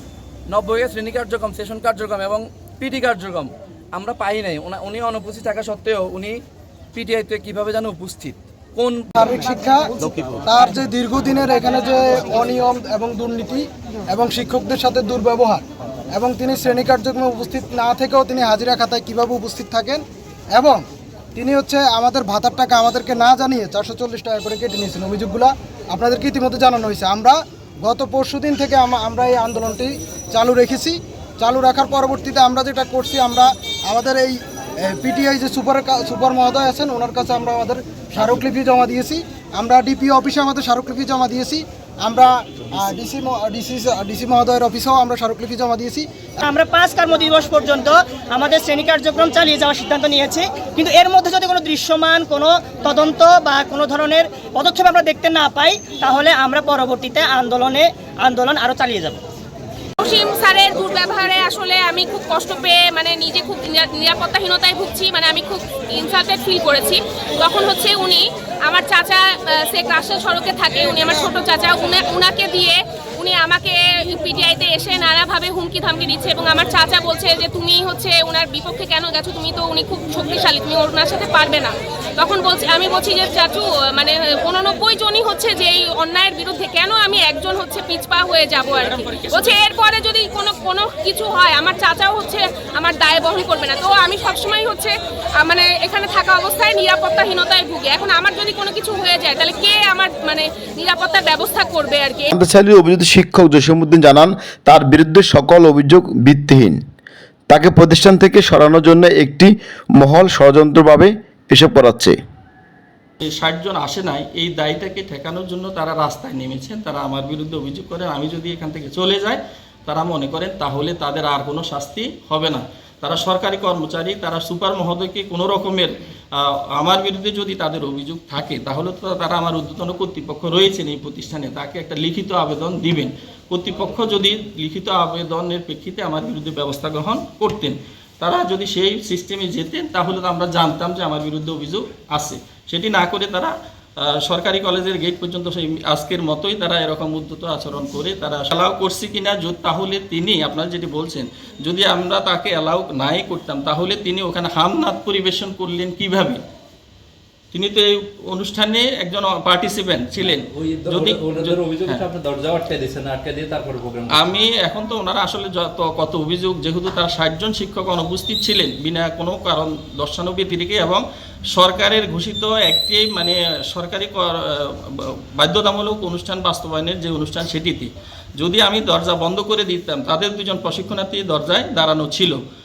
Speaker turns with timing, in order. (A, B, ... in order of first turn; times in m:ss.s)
0:00.5-0:06.4 A
0:06.9-0:09.1 A
0:09.2-0:09.9 B
0:10.4-0:46.1 B
0:46.4-0:59.2 C
1:00.0-1:42.3 D
1:28.8-1:29.6 E
1:42.3-1:46.8 F
1:47.5-1:52.2 F
1:53.2-2:23.5 E
2:24.0-2:36.4 E
2:37.5-2:42.0 E
2:40.2-2:44.4 G
2:44.1-2:54.4 E
2:55.4-3:02.4 E